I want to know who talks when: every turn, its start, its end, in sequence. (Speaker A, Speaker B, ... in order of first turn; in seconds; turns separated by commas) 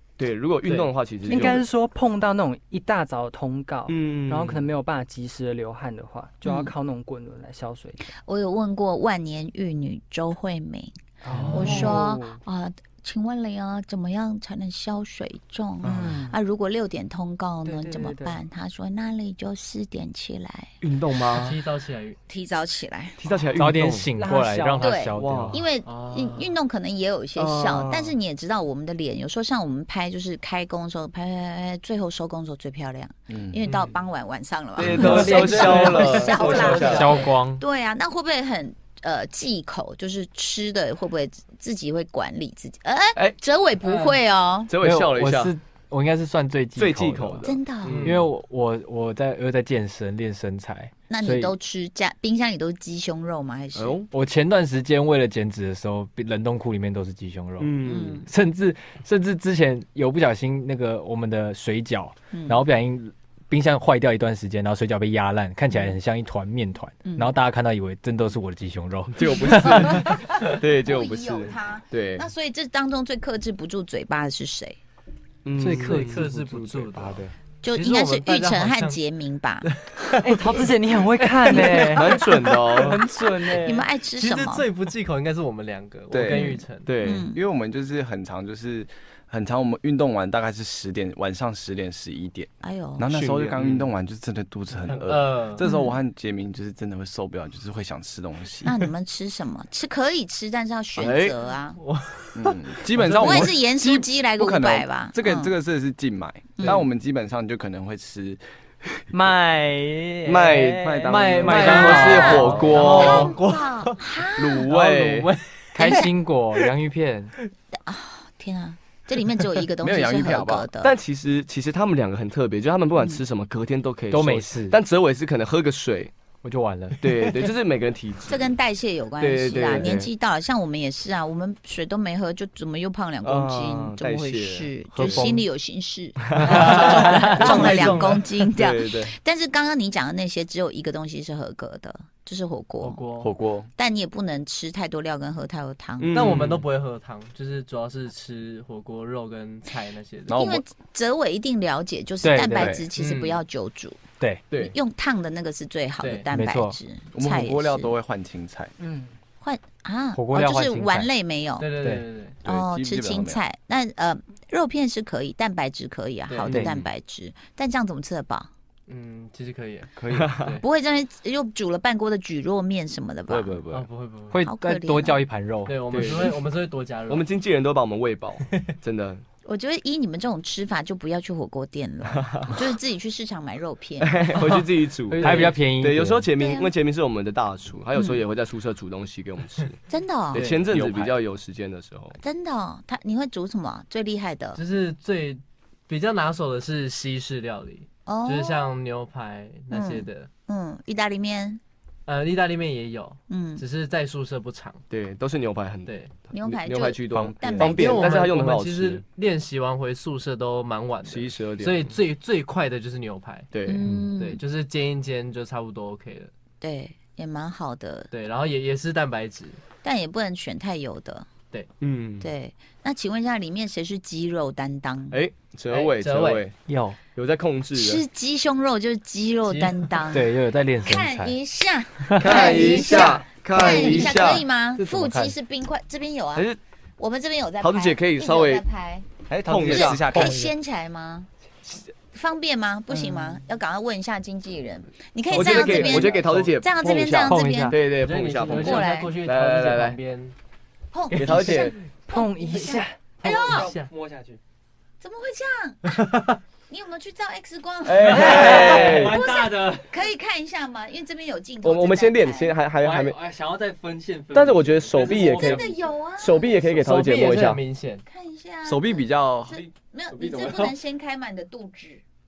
Speaker A: 0.2-1.6, Speaker B: 0.6-0.9, Speaker C: 1.2-8.1, Speaker A: 3.9-4.7, Speaker D: 6.4-6.7, Speaker D: 8.1-11.0, Speaker C: 11.2-12.4, Speaker D: 11.5-20.7, Speaker C: 15.8-16.4, Speaker C: 17.6-18.4, Speaker A: 20.8-21.6, Speaker B: 21.3-22.2, Speaker D: 22.3-23.4, Speaker A: 23.2-24.1, Speaker E: 23.5-25.6, Speaker C: 24.0-25.0, Speaker D: 24.8-44.7, Speaker A: 25.1-25.6, Speaker B: 25.8-26.5, Speaker A: 27.4-28.1, Speaker F: 33.3-33.6, Speaker B: 33.6-33.9, Speaker A: 34.8-37.2, Speaker C: 35.0-37.0, Speaker B: 35.2-35.8, Speaker B: 36.4-36.7, Speaker E: 36.8-37.6, Speaker B: 43.8-44.2, Speaker A: 44.7-45.5, Speaker E: 44.8-51.5, Speaker A: 46.8-48.2, Speaker D: 47.4-48.1, Speaker B: 47.9-48.3, Speaker D: 51.1-54.0, Speaker A: 53.7-54.1, Speaker E: 54.1-69.8, Speaker A: 57.6-58.2, Speaker D: 57.8-58.3, Speaker D: 62.3-62.6, Speaker D: 67.0-67.3, Speaker A: 69.1-72.3, Speaker D: 69.4-74.8, Speaker A: 75.4-76.2, Speaker E: 75.6-77.3, Speaker B: 75.6-79.0, Speaker C: 75.8-76.7, Speaker D: 77.6-79.7, Speaker B: 79.6-80.7, Speaker C: 80.2-83.9, Speaker B: 81.2-82.2, Speaker A: 81.9-83.0, Speaker D: 83.2-84.7, Speaker B: 84.2-86.9, Speaker F: 86.1-86.6, Speaker A: 86.3-87.3, Speaker D: 86.3-87.4, Speaker F: 87.1-98.7, Speaker D: 92.6-93.1, Speaker A: 93.1-93.9, Speaker B: 94.8-95.6, Speaker D: 95.6-96.0, Speaker D: 98.6-101.8, Speaker A: 101.0-101.3, Speaker B: 101.8-103.5, Speaker F: 102.3-108.4, Speaker D: 103.2-105.5, Speaker C: 109.1-113.3, Speaker A: 110.2-110.8, Speaker F: 110.8-112.8, Speaker B: 111.1-111.9, Speaker E: 111.5-112.7, Speaker A: 111.6-113.3, Speaker D: 112.0-114.7, Speaker B: 112.7-116.0, Speaker A: 114.4-115.3, Speaker E: 115.7-117.3, Speaker D: 115.8-116.1, Speaker D: 117.8-120.9, Speaker F: 119.8-120.7, Speaker A: 120.8-126.1, Speaker E: 124.1-124.8, Speaker E: 126.4-127.4, Speaker A: 127.0-128.5, Speaker D: 128.3-143.0, Speaker A: 129.2-130.1, Speaker A: 133.2-135.2, Speaker E: 134.9-135.4, Speaker A: 136.3-139.1, Speaker E: 136.4-137.5, Speaker B: 136.7-138.2, Speaker B: 142.8-143.3, Speaker F: 143.2-143.7, Speaker D: 143.8-146.3, Speaker A: 146.0-146.6, Speaker B: 146.1-150.4, Speaker F: 150.3-150.6, Speaker D: 150.3-154.0, Speaker E: 152.2-152.8, Speaker F: 152.6-152.8, Speaker B: 152.9-153.4, Speaker A: 154.5-154.8, Speaker D: 154.6-157.9, Speaker B: 156.0-156.3, Speaker E: 156.3-156.8, Speaker F: 157.1-158.7, Speaker C: 158.8-159.1, Speaker D: 159.4-161.7, Speaker E: 160.1-161.1, Speaker B: 161.6-162.4, Speaker F: 162.4-163.4, Speaker D: 162.4-168.5, Speaker B: 166.3-166.6, Speaker E: 166.5-166.7, Speaker A: 166.5-166.8, Speaker B: 168.9-170.6, Speaker F: 169.9-170.3, Speaker A: 170.1-170.6, Speaker D: 170.6-173.6, Speaker F: 173.3-173.9, Speaker B: 173.7-174.4, Speaker E: 174.3-176.1, Speaker D: 174.4-175.2, Speaker B: 175.7-177.3, Speaker A: 175.9-176.4, Speaker A: 177.1-179.2, Speaker D: 179.4-184.2, Speaker A: 182.2-182.5, Speaker A: 184.0-189.8, Speaker C: 185.1-185.4, Speaker E: 185.1-186.3, Speaker D: 186.4-186.7, Speaker D: 187.9-188.2, Speaker D: 189.9-190.4, Speaker A: 190.3-192.2, Speaker B: 190.3-190.6, Speaker F: 190.7-191.1, Speaker D: 192.2-194.6, Speaker B: 194.5-200.3, Speaker D: 198.1-198.7, Speaker D: 199.7-201.6, Speaker B: 202.1-204.8, Speaker D: 203.3-203.6, Speaker A: 204.9-209.0, Speaker B: 205.8-206.1, Speaker D: 206.3-208.0, Speaker F: 207.1-208.1, Speaker B: 207.8-213.6, Speaker A: 211.0-211.9, Speaker A: 213.5-213.8, Speaker D: 213.7-214.4, Speaker B: 214.1-216.3, Speaker D: 216.6-218.1, Speaker B: 218.1-219.6, Speaker D: 219.8-221.2, Speaker A: 221.8-222.3, Speaker D: 222.2-225.2, Speaker A: 225.1-226.5, Speaker B: 225.7-226.5, Speaker E: 226.7-227.0, Speaker A: 227.1-228.0, Speaker D: 227.7-230.3, Speaker B: 229.4-229.9, Speaker E: 230.1-231.3, Speaker D: 230.8-239.1, Speaker E: 232.1-232.5, Speaker A: 232.2-234.4, Speaker B: 232.4-233.0, Speaker B: 233.6-235.3, Speaker A: 237.6-238.6, Speaker F: 239.3-240.5, Speaker A: 239.4-240.3, Speaker D: 239.6-241.3, Speaker D: 242.1-247.8, Speaker A: 245.3-250.0, Speaker B: 245.4-246.5, Speaker E: 247.2-247.8, Speaker B: 247.9-250.3, Speaker D: 248.5-249.1, Speaker D: 250.9-253.7, Speaker A: 251.1-251.7, Speaker B: 251.3-251.6, Speaker C: 252.0-253.5, Speaker E: 253.3-254.4, Speaker B: 253.3-253.9, Speaker D: 255.0-256.0, Speaker B: 255.9-256.4, Speaker D: 256.7-262.5, Speaker A: 257.8-259.2, Speaker E: 258.0-260.0, Speaker A: 261.6-263.2, Speaker E: 262.8-266.0, Speaker A: 264.3-267.6, Speaker D: 265.0-266.5, Speaker B: 266.8-268.0, Speaker D: 268.1-272.0, Speaker A: 268.6-269.5, Speaker E: 270.1-270.7